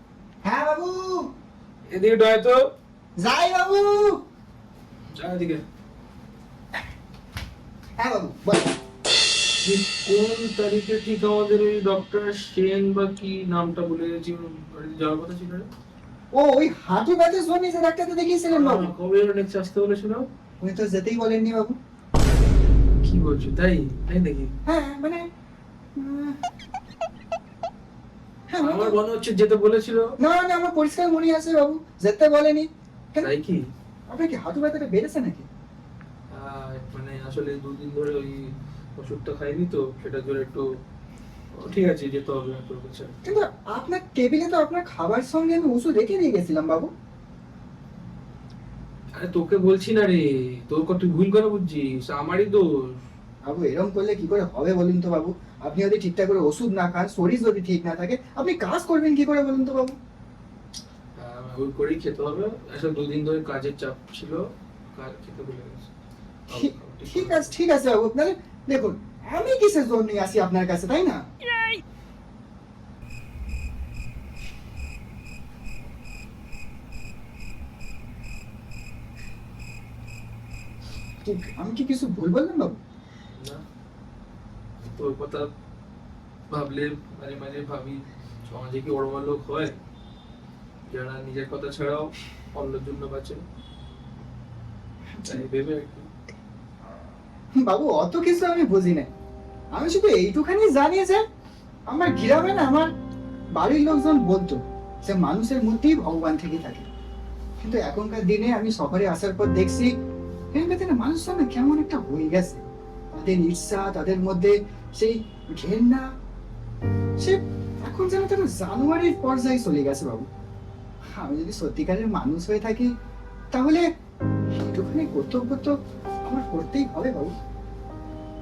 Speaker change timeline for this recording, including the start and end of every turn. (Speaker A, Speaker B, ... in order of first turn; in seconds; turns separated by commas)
Speaker A: 0.4-1.3, Speaker B: 1.9-2.6, Speaker A: 3.2-4.2, Speaker B: 5.1-5.6, Speaker A: 8.0-8.8, Speaker B: 9.6-15.7, Speaker A: 16.3-18.9, Speaker B: 18.5-20.2, Speaker A: 20.6-21.8, Speaker B: 23.0-24.5, Speaker A: 24.7-25.3, Speaker A: 26.0-26.4, Speaker A: 28.5-29.0, Speaker B: 28.6-30.1, Speaker A: 30.2-33.3, Speaker B: 33.2-33.6, Speaker A: 34.1-35.5, Speaker B: 36.3-40.7, Speaker B: 41.5-43.3, Speaker A: 43.2-46.9, Speaker B: 49.2-53.0, Speaker A: 53.5-60.0, Speaker B: 61.2-65.9, Speaker B: 66.5-67.5, Speaker A: 66.5-71.2, Speaker A: 81.2-82.8, Speaker B: 83.4-83.6, Speaker B: 85.0-85.5, Speaker B: 86.5-89.8, Speaker B: 90.9-93.4, Speaker A: 95.2-95.5, Speaker B: 95.2-96.1, Speaker A: 97.5-99.1, Speaker A: 99.7-101.2, Speaker A: 101.9-102.9, Speaker A: 103.5-106.9, Speaker A: 107.6-109.9, Speaker A: 110.5-112.6, Speaker A: 113.2-116.1, Speaker A: 117.2-120.3, Speaker A: 121.1-123.0, Speaker A: 123.5-123.9, Speaker A: 124.5-127.3